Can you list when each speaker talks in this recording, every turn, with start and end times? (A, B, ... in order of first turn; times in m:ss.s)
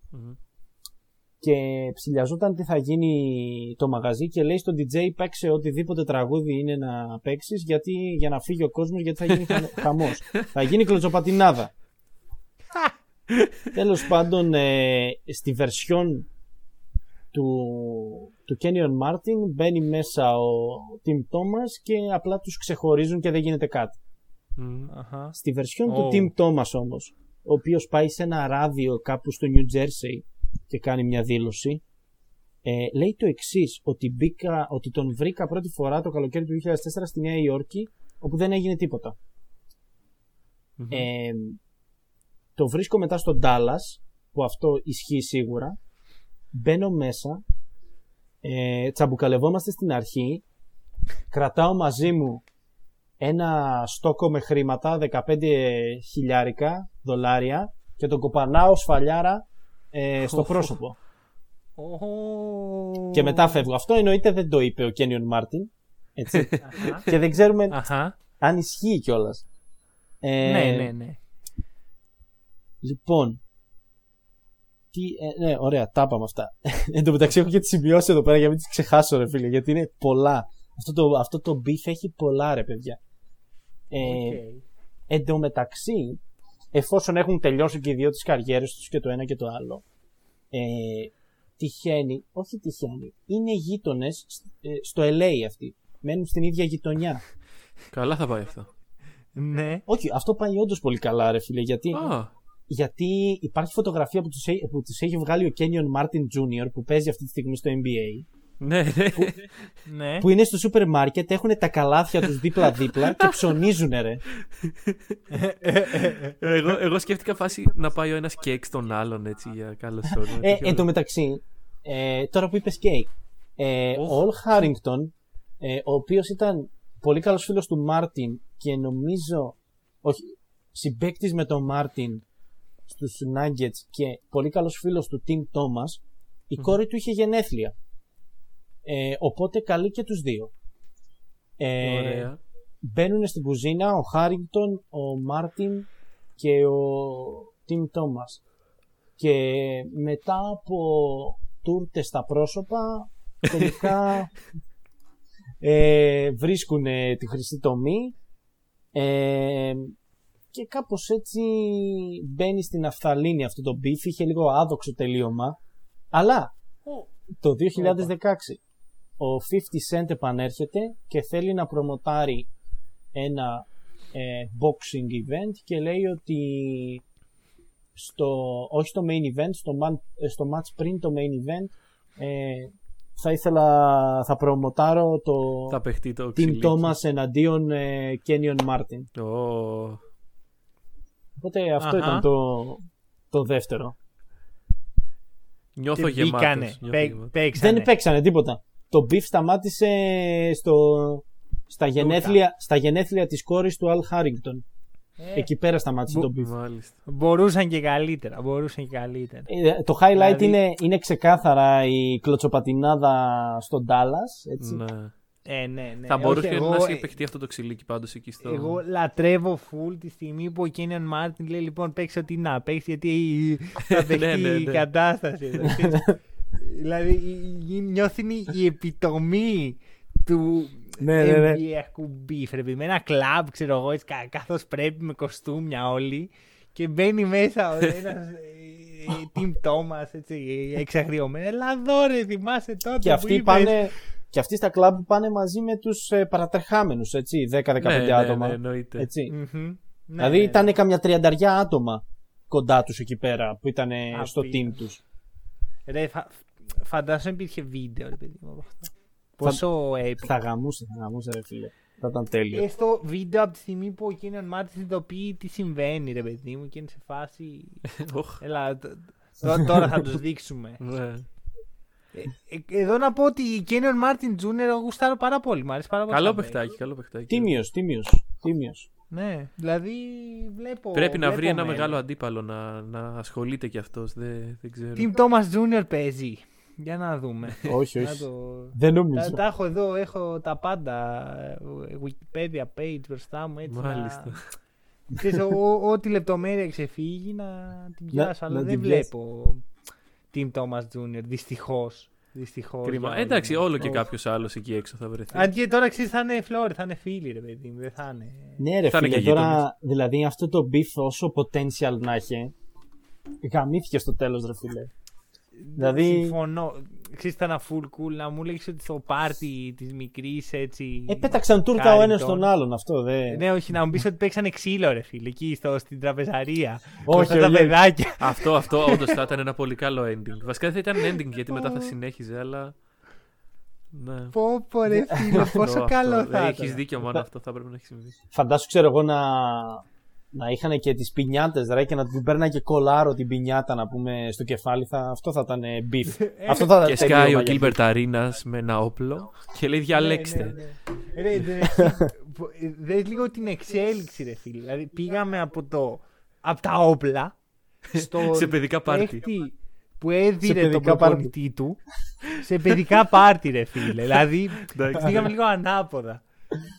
0:00.1-0:00.4 A
0:01.4-0:11.7 B
0:13.7-0:16.3 B
0:17.3-0:24.0 B
0:24.6-0:24.9 A
0:24.9-0:26.3 C
0:25.4-0:31.8 B
0:32.6-0:39.2 B
0:40.8-0:41.1 A
0:40.9-0:41.6 B
0:42.6-0:45.8 B
0:46.5-0:47.4 B
0:48.4-0:50.4 B
0:51.3-0:52.4 B
0:53.2-1:01.0 B
1:00.2-1:00.7 A
1:01.8-1:03.6 C
1:03.1-1:07.8 B
1:06.6-1:07.0 C
1:07.7-1:08.1 C
1:08.4-1:09.4 B
1:10.2-1:10.9 B
1:10.4-1:11.2 C
1:12.8-1:13.4 B
1:14.9-1:23.0 B
1:23.9-1:24.4 B
1:24.0-1:24.6 C
1:25.1-1:26.2 B
1:26.7-1:29.8 B
1:30.5-1:37.2 B
1:37.9-1:38.7 A
1:39.4-1:39.8 C
1:39.9-1:42.1 B
1:41.9-1:42.3 A
1:42.7-1:48.2 B
1:48.6-1:49.4 A
1:49.8-1:50.3 C
1:50.2-1:54.2 B
1:53.0-1:53.4 A
1:54.6-1:55.0 A
1:55.3-1:56.4 C
1:56.4-2:00.9 A
2:00.1-2:12.2 B
2:12.9-2:17.7 B
2:18.8-2:20.5 B
2:21.6-2:22.3 B
2:21.8-2:22.4 A
2:22.8-2:28.4 B
2:29.2-2:34.4 B
2:35.6-2:38.1 B
2:38.9-2:39.9 B
2:40.5-2:45.6 B
2:46.1-2:46.5 B
2:46.8-2:47.1 C
2:47.4-2:48.6 B
2:47.7-2:48.1 C
2:49.2-2:52.5 B
2:53.1-2:57.0 B
2:57.9-3:05.8 B
3:05.7-3:06.9 A
3:06.3-3:09.1 B
3:09.2-3:10.0 A
3:11.4-3:14.0 B
3:11.8-3:12.2 C
3:15.8-3:17.3 A
3:16.0-3:17.9 C
3:17.5-3:24.6 B
3:22.0-3:22.4 C
3:25.2-3:25.5 C
3:25.3-3:26.5 B
3:26.3-3:26.9 A
3:27.0-3:29.5 C
3:29.5-3:34.8 B
3:30.1-3:30.6 C
3:34.6-3:35.1 A
3:35.4-3:37.1 C
3:36.1-3:38.8 A
3:38.4-4:03.9 C
3:43.9-3:44.8 A
3:51.0-3:51.6 B
4:03.0-4:09.3 B
4:07.8-4:09.1 A
4:09.3-4:10.7 C
4:10.2-4:15.0 B
4:14.1-4:14.8 C
4:15.9-4:20.3 C
4:20.2-4:22.6 B
4:22.5-4:30.8 C
4:28.0-4:28.4 A
4:30.8-4:31.3 A
4:32.1-4:36.6 C
4:36.1-4:37.5 A
4:37.3-4:38.9 B
4:39.1-4:42.0 C
4:40.9-4:45.1 A
4:45.0-4:54.4 C
4:47.6-4:49.4 B
4:53.7-4:54.5 A
4:55.1-4:59.6 C
4:58.1-4:59.1 B
5:00.3-5:04.0 C
5:02.8-5:05.5 A
5:05.3-5:08.6 C
5:08.6-5:12.5 B
5:08.9-5:09.6 A
5:13.4-5:14.9 B
5:15.6-5:22.5 C
5:15.8-5:16.4 B
5:21.1-5:23.4 B
5:23.3-5:29.1 C
5:27.0-5:27.8 B
5:28.2-5:32.7 A
5:31.5-5:31.9 C
5:33.9-5:34.4 A
5:34.3-5:36.8 C
5:35.4-5:38.2 A
5:38.3-5:47.8 B
5:46.2-5:47.2 C
5:46.8-5:50.6 A
5:49.9-5:57.3 C
5:57.9-6:06.2 C
5:57.9-5:59.2 A
6:00.4-6:01.3 B
6:04.6-6:05.3 A